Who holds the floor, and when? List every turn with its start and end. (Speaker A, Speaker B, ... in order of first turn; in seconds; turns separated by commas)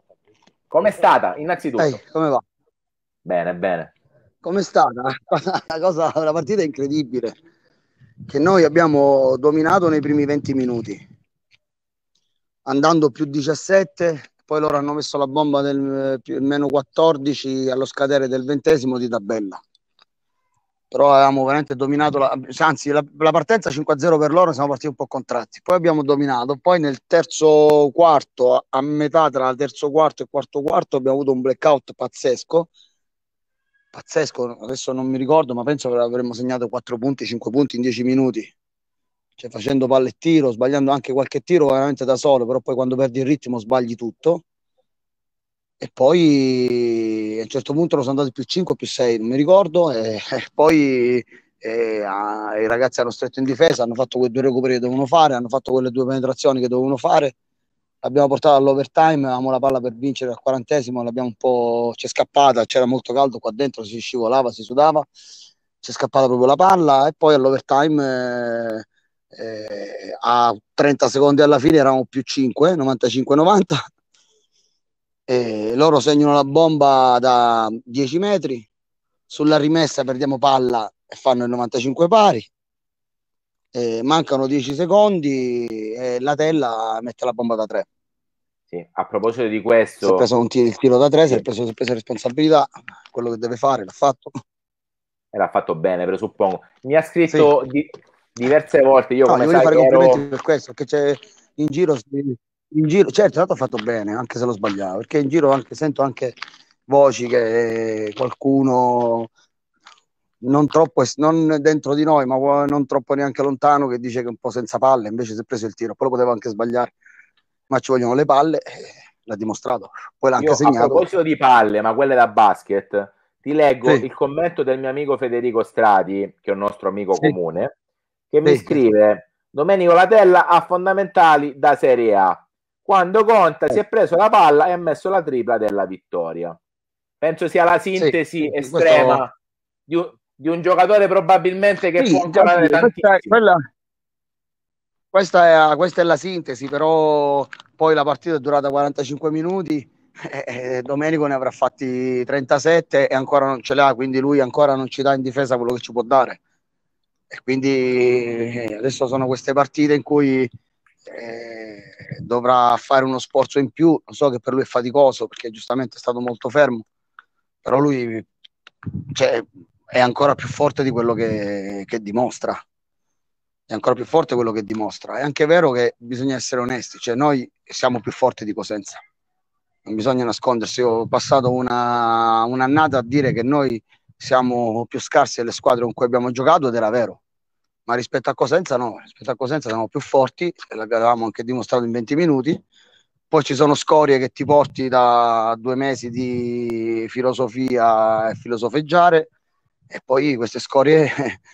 Speaker A: 0.7-2.0, Speaker B: 1.8-2.4, Speaker A: 3.2-3.9, Speaker B: 4.4-7.3, Speaker B: 8.3-11.0, Speaker B: 12.7-19.6, Speaker B: 20.9-32.7, Speaker B: 33.9-38.5, Speaker B: 39.4-44.4, Speaker B: 45.8-57.3, Speaker B: 58.0-65.1, Speaker B: 65.8-73.8, Speaker B: 75.3-78.7, Speaker B: 79.3-82.5, Speaker B: 83.7-87.9, Speaker A: 88.7-90.2, Speaker B: 90.0-94.3, Speaker A: 95.3-100.2, Speaker B: 99.3-106.3, Speaker B: 106.9-109.3, Speaker B: 110.4-116.9, Speaker B: 117.7-121.1, Speaker A: 120.4-127.7, Speaker A: 128.3-136.6, Speaker B: 128.4-128.8, Speaker A: 137.2-139.3, Speaker B: 138.0-139.2, Speaker A: 139.9-143.3, Speaker B: 142.0-143.6, Speaker B: 145.1-156.4, Speaker B: 157.3-160.5, Speaker B: 161.1-166.8, Speaker B: 167.6-168.3, Speaker B: 169.1-172.6, Speaker B: 173.7-179.0, Speaker B: 179.8-187.2, Speaker B: 187.9-192.6, Speaker B: 193.3-199.3, Speaker B: 199.9-201.4